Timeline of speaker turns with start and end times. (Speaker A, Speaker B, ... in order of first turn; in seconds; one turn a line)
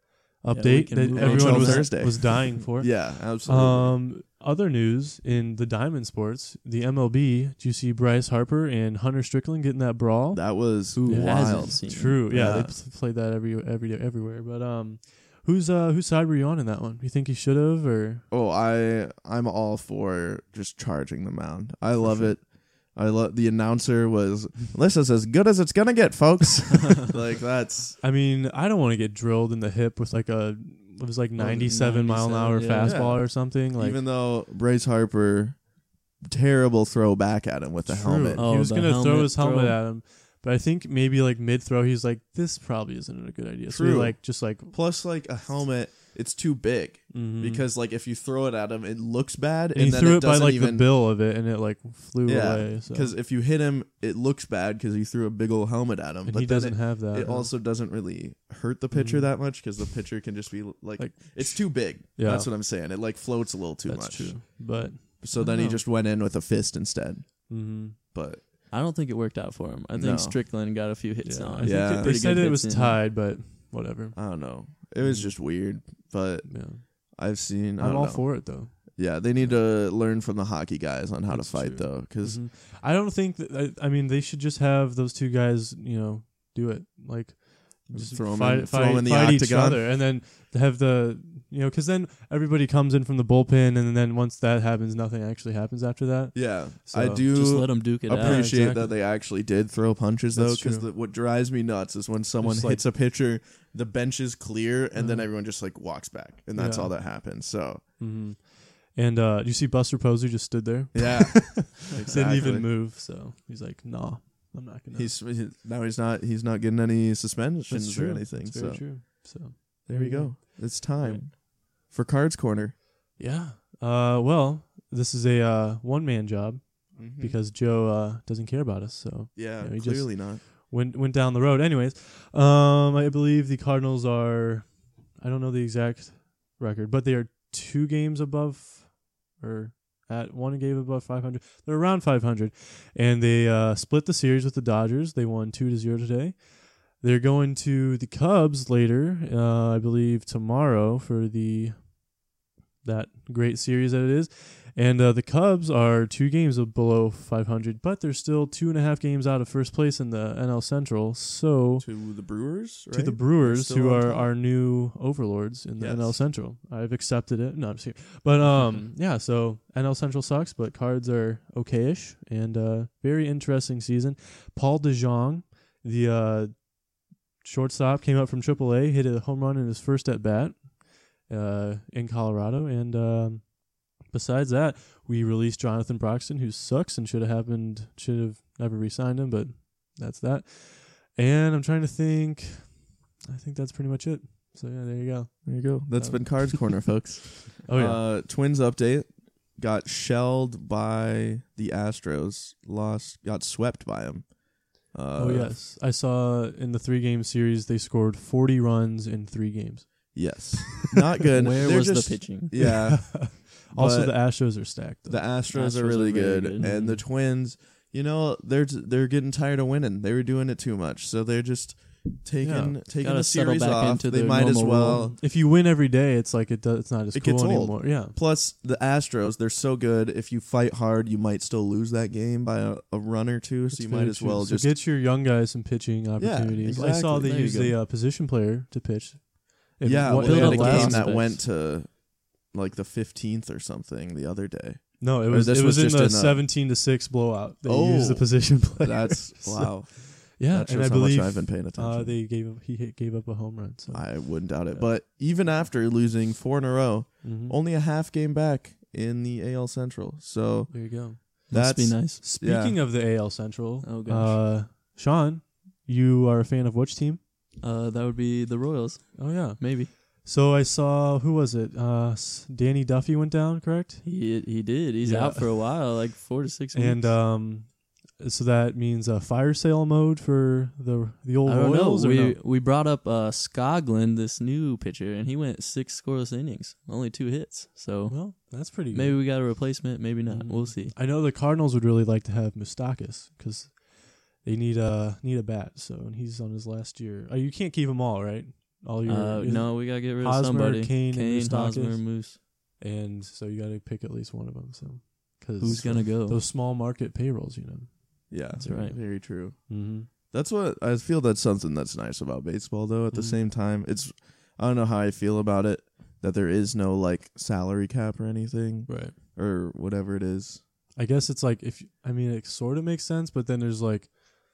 Speaker A: 0.4-18.3
Speaker B: 0.5-2.4
Speaker C: 1.1-4.0
Speaker C: 10.3-12.8
Speaker B: 11.0-12.5
Speaker C: 18.3-28.0
Speaker A: 22.0-22.4
Speaker A: 28.0-34.0
Speaker B: 31.4-33.2
Speaker C: 32.8-38.5
Speaker A: 37.9-44.8
Speaker B: 38.4-39.8
Speaker C: 43.7-50.9
Speaker A: 47.1-47.7
Speaker A: 49.7-53.1
Speaker C: 52.2-68.4
Speaker A: 56.2-57.5
Speaker A: 58.9-59.3
Speaker A: 61.0-62.5
Speaker A: 63.9-65.8
Speaker A: 67.5-68.0
Speaker B: 68.7-73.0
Speaker C: 69.9-70.4
Speaker A: 71.2-75.4
Speaker C: 71.6-72.2
Speaker C: 74.2-82.4
Speaker A: 76.5-77.1
Speaker A: 77.8-79.6
Speaker A: 81.3-97.3
Speaker C: 87.9-89.9
Speaker C: 96.3-107.8
Speaker B: 97.3-98.5
Speaker A: 98.0-99.0
Speaker A: 100.3-100.9
Speaker A: 102.4-102.9
Speaker A: 105.0-105.3
Speaker A: 106.5-107.0
Speaker A: 108.0-115.2
Speaker C: 110.9-112.7
Speaker C: 114.9-122.8
Speaker A: 117.7-120.4
Speaker A: 123.2-152.0
Speaker C: 127.0-127.4
Speaker C: 129.3-130.4
Speaker A: 152.8-162.0
Speaker C: 161.8-164.3
Speaker A: 162.9-176.8
Speaker C: 165.8-166.2
Speaker B: 168.5-168.9
Speaker A: 177.4-196.9
Speaker C: 195.4-205.6
Speaker A: 197.7-198.1
Speaker A: 205.2-210.5
Speaker C: 210.1-225.2
Speaker B: 211.3-212.5
Speaker A: 212.5-215.3
Speaker B: 215.5-217.0
Speaker A: 216.6-216.9
Speaker A: 222.4-222.8
Speaker B: 223.0-225.1
Speaker A: 225.0-228.2
Speaker C: 227.1-234.8
Speaker A: 233.7-241.3
Speaker C: 236.2-237.7
Speaker B: 237.2-237.8
Speaker C: 239.8-246.6
Speaker B: 240.2-241.4
Speaker A: 245.0-254.3
Speaker C: 247.6-252.2
Speaker C: 253.9-262.8
Speaker A: 257.2-257.6
Speaker A: 260.7-261.5
Speaker B: 261.5-262.2
Speaker A: 262.2-267.2
Speaker B: 263.8-264.5
Speaker B: 267.6-269.9
Speaker A: 269.2-274.3
Speaker B: 274.0-277.2
Speaker A: 275.0-275.7
Speaker A: 276.7-282.4
Speaker B: 281.4-290.9
Speaker A: 288.1-289.2
Speaker A: 290.3-310.1
Speaker B: 299.1-302.4
Speaker B: 305.6-306.4
Speaker C: 308.3-320.6
Speaker B: 308.6-309.0
Speaker A: 313.1-313.4
Speaker A: 318.9-319.2
Speaker A: 320.9-324.1